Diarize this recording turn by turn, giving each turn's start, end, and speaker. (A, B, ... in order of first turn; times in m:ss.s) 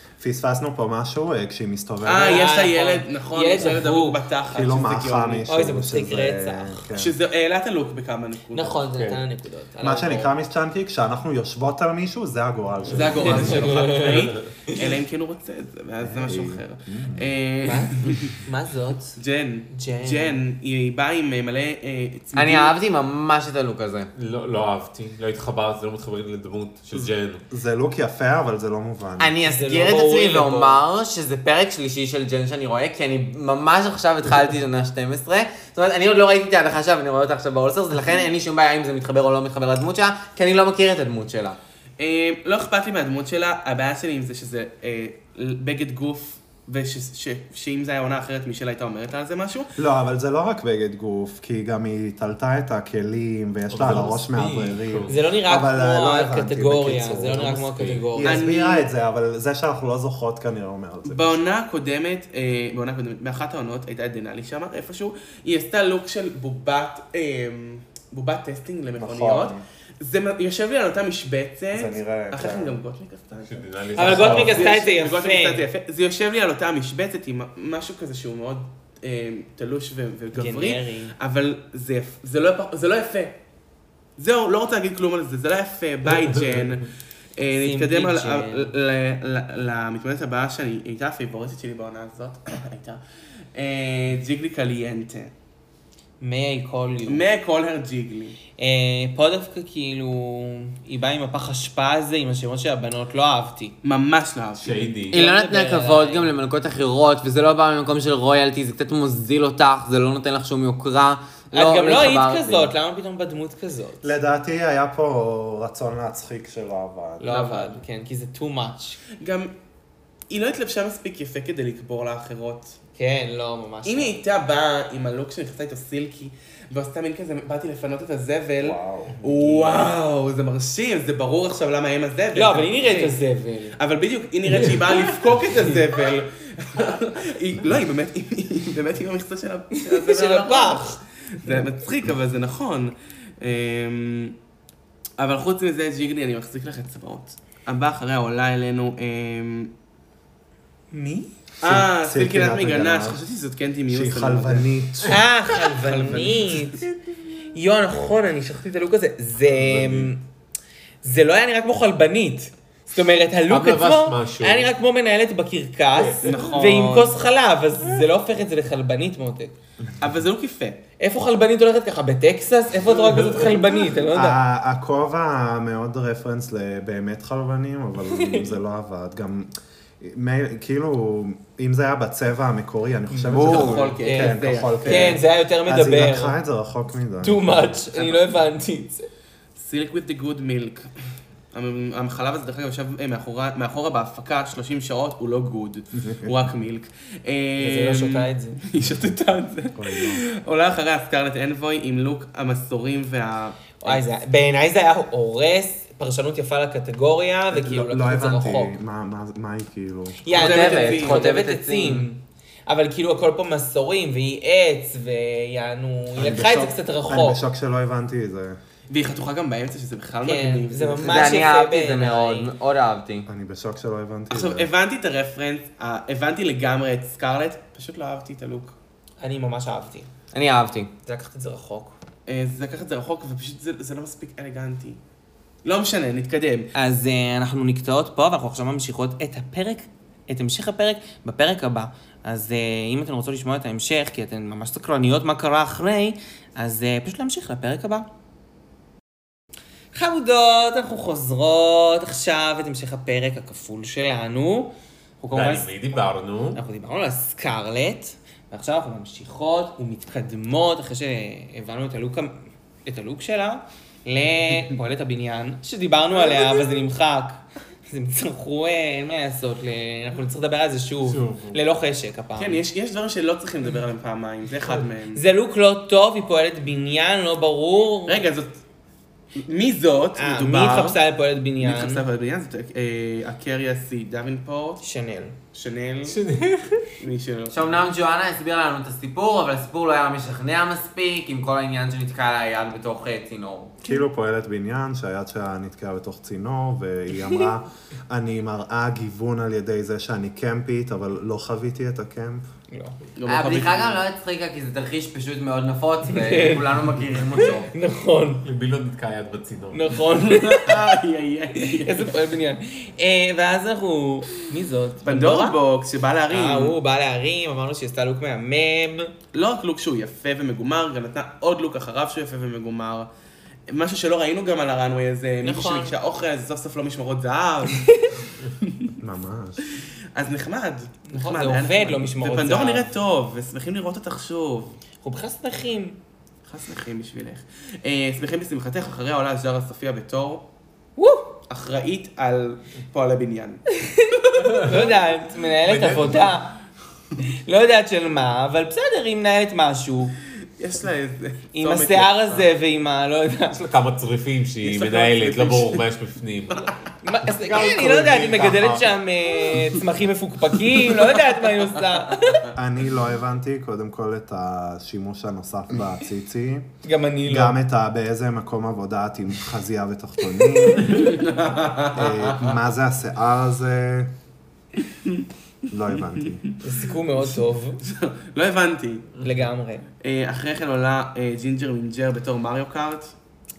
0:00.2-0:02.5 A
0:02.0-0:05.5 B
0:02.2-0:04.2 C
0:04.5-0:07.1 A
0:05.5-0:06.8 C
0:06.9-0:08.8 B
0:08.5-0:10.3 C
0:08.9-0:09.2 D
0:09.8-0:14.1 A
0:12.9-0:18.3 B
0:13.2-0:14.8 C
0:16.0-0:17.3 A
0:17.6-0:19.1 C
0:19.2-0:22.7 B
0:19.7-0:20.4 C
0:22.4-0:24.1 E
0:24.1-0:27.4 D
0:26.9-0:29.3 A
0:29.2-0:41.6 E
0:29.4-0:30.8 C
0:42.0-0:49.8 B
0:49.8-0:57.6 A
0:53.7-0:55.2 D
0:55.1-0:58.4 C
0:57.4-0:58.2 D
0:58.1-1:01.4 A
0:58.2-0:58.9 B
1:01.0-1:23.4 B
1:09.0-1:09.6 A
1:11.7-1:12.8 A
1:13.4-1:14.8 D
1:13.9-1:15.7 C
1:20.3-1:21.1 C
1:24.2-1:33.0 B
1:27.5-1:28.7 C
1:33.5-1:35.3 B
1:36.2-1:37.2 C
1:37.1-1:38.4 B
1:38.6-1:43.7 C
1:43.8-1:45.0 B
1:44.6-1:45.2 D
1:45.1-1:52.7 E
1:45.1-1:46.3 C
1:51.5-1:54.1 C
1:54.0-1:57.6 A
1:57.2-1:59.0 C
1:59.2-1:59.5 B
2:00.3-2:02.8 B
2:03.0-2:04.2 C
2:03.8-2:13.1 B
2:08.6-2:09.6 A
2:12.3-2:13.8 C
2:13.8-2:24.3 B
2:19.8-2:21.0 C
2:25.2-2:29.7 B
2:30.9-2:31.3 C
2:31.6-2:33.2 A
2:31.6-2:34.7 B
2:33.9-2:35.2 A
2:35.0-2:36.9 C
2:35.8-2:36.8 B
2:37.5-2:40.2 C
2:39.5-2:40.1 A
2:41.0-2:49.5 C
2:43.5-2:44.7 D
2:45.9-2:46.8 D
2:46.2-2:47.1 B
2:50.0-2:50.8 B
2:51.0-2:54.4 C
2:53.0-2:53.6 D
2:54.1-2:59.5 A
2:58.1-2:58.4 C
3:00.0-3:07.9 A
3:03.1-3:06.4 C
3:03.3-3:03.9 E
3:03.4-3:05.2 B
3:07.2-3:09.1 C
3:09.6-3:10.9 B
3:11.5-3:24.0 B
3:17.6-3:18.6 C
3:19.7-3:20.2 A
3:23.8-3:28.7 C
3:27.5-3:30.2 A
3:30.2-3:37.4 C
3:30.3-3:31.2 B
3:30.3-3:32.1 E
3:36.2-3:38.6 A
3:38.9-3:41.4 B
3:40.2-3:42.5 C
3:41.0-3:43.3 E
3:43.3-3:44.7 A
3:44.3-3:48.8 B
3:49.2-3:50.1 C
3:50.3-3:50.9 E
3:51.0-3:52.0 C
3:52.3-3:55.0 B
3:55.6-3:56.7 B
3:56.7-4:08.1 C
4:09.9-4:15.7 C
4:15.3-4:16.6 D
4:16.5-4:22.3 C
4:22.8-4:32.6 C
4:31.0-4:31.6 D
4:32.4-4:35.2 B
4:35.1-4:38.2 C
4:38.1-4:38.6 B
4:39.4-4:41.0 B
4:40.2-4:42.0 C
4:41.6-4:44.8 B
4:44.8-4:45.3 C
4:45.5-4:46.2 B
4:46.0-4:46.9 D
4:47.0-4:47.7 B
4:47.5-4:53.8 E
4:53.8-5:02.4 A
5:02.7-5:03.0 C
5:03.2-5:04.0 B
5:03.2-5:07.7 E
5:06.1-5:06.7 C
5:07.3-5:08.4 C
5:08.4-5:10.0 D
5:09.7-5:10.9 C
5:10.2-5:12.1 B
5:11.6-5:15.6 C
5:15.0-5:16.7 B
5:16.3-5:19.1 C
5:19.3-5:23.1 B
5:23.7-5:27.9 B
5:25.4-5:25.9 C
5:27.7-5:28.1 C
5:28.6-5:29.0 B
5:29.0-5:29.6 A
5:30.1-5:34.8 B
5:31.1-5:32.9 C
5:35.0-5:36.0 C
5:36.4-5:40.4 B
5:41.0-5:41.3 C
5:41.5-5:43.6 B
5:43.8-5:46.6 C
5:44.2-5:44.8 B
5:44.4-5:44.9 D
5:45.6-5:46.3 D
5:47.3-5:50.1 C
5:50.6-5:52.4 B
5:51.5-5:53.6 C
5:53.5-5:56.7 D
5:54.6-5:55.8 B
5:57.0-6:02.5 C
5:57.5-5:58.9 A
5:58.0-5:58.4 D
6:02.5-6:06.7 A
6:06.8-6:07.6 C
6:07.2-6:11.1 A
6:10.8-6:12.6 B
6:11.9-6:14.1 A
6:14.8-6:15.2 B
6:15.7-6:16.4 A
6:16.2-6:16.6 B
6:16.6-6:17.8 C
6:17.8-6:19.1 B
6:19.2-6:19.8 C
6:20.0-6:23.1 B